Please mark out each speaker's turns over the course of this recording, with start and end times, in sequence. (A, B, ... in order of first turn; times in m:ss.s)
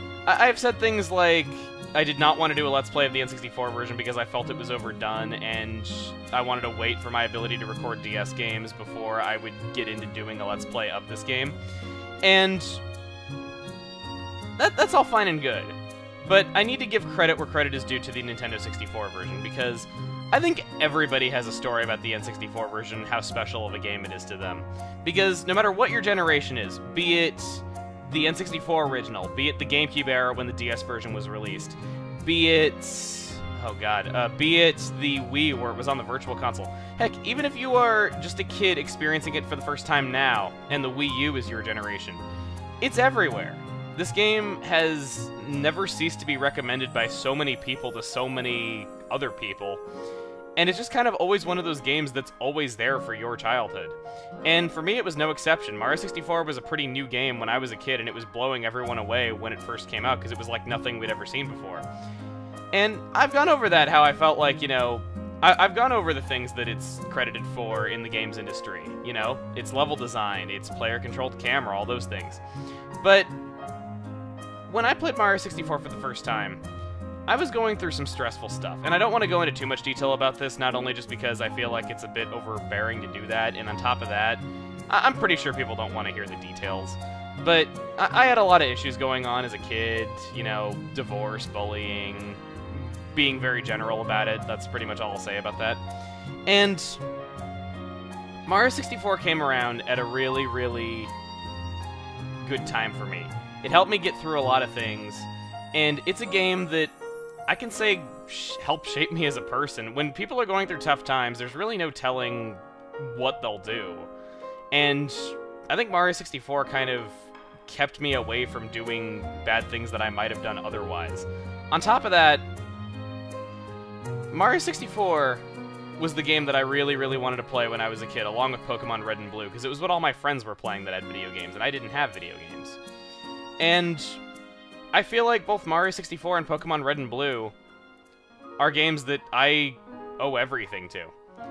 0:00.3-0:11.6 A
0:12.2-0:12.8 A
0:14.6-0:42.2 A
0:42.8-0:49.8 A
0:50.6-1:01.9 A
1:02.7-1:12.4 A
1:13.0-1:13.3 A
1:14.7-1:16.6 A
1:17.3-1:35.8 A
1:36.5-1:37.0 A
1:38.5-1:41.1 A
1:42.4-1:46.9 A
1:47.5-1:54.1 A
1:54.7-2:02.4 A
2:04.3-2:05.4 A
2:06.0-2:12.8 A
2:13.6-2:14.2 A
2:14.9-2:17.5 A
2:18.6-2:21.1 A